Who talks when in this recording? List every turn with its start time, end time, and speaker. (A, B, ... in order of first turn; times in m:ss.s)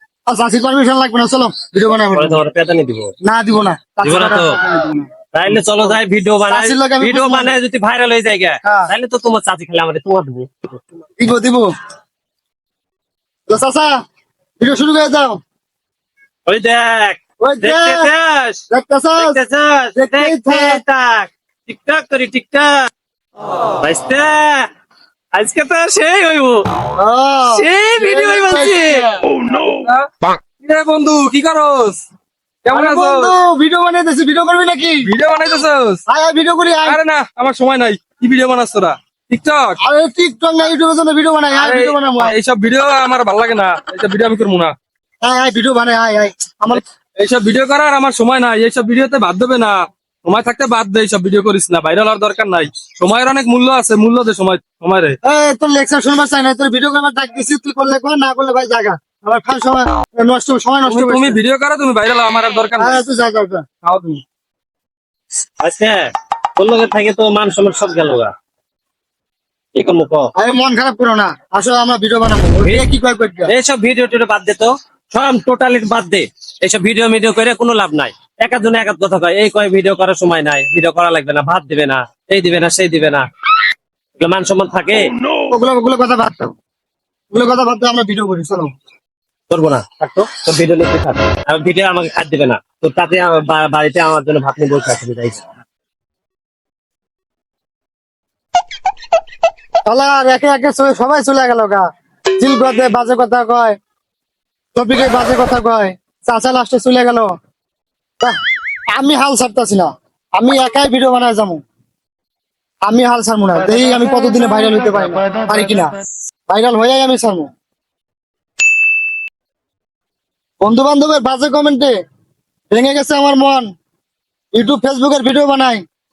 0:00.3-0:02.4 A
0:02.1-0:03.1 B
0:03.2-0:05.1 A
0:04.0-0:04.6 B
0:05.3-0:10.8 B
0:06.5-0:07.5 A
0:08.6-0:08.9 A
0:11.2-0:11.7 A
0:13.5-0:14.0 A
0:14.6-0:15.4 A
0:16.5-0:18.6 B
0:17.4-0:18.1 A
0:18.7-0:19.4 A
0:19.2-0:22.9 B
0:20.0-0:20.8 A
0:23.8-0:24.7 B
0:25.3-0:26.6 B
0:27.0-0:29.1 A
0:27.5-0:29.0 B
0:29.7-0:30.1 C
0:30.6-0:32.0 C
0:32.6-0:33.3 C
0:32.7-0:35.1 A
0:35.0-0:36.0 C
0:36.1-0:37.0 A
0:36.8-0:39.8 C
0:39.8-0:42.3 A
0:41.5-0:44.7 C
0:45.2-0:46.8 A
0:46.8-0:55.1 C
0:55.2-1:01.4 A
1:00.8-1:03.0 C
1:02.8-1:03.6 A
1:03.8-1:04.2 C
1:05.6-1:08.3 B
1:09.7-1:10.3 B
1:10.4-1:13.5 A
1:13.5-1:23.2 B
1:24.2-1:25.0 B
1:25.5-1:26.5 A
1:27.3-1:28.7 A
1:29.5-1:35.4 B
1:39.8-1:41.8 A
1:42.4-1:43.8 A
1:44.7-1:47.3 A
1:48.9-1:51.6 A
1:52.8-1:56.0 A
1:56.5-1:57.5 A
2:00.6-2:01.9 A
2:02.7-2:03.7 A
2:04.5-2:05.8 A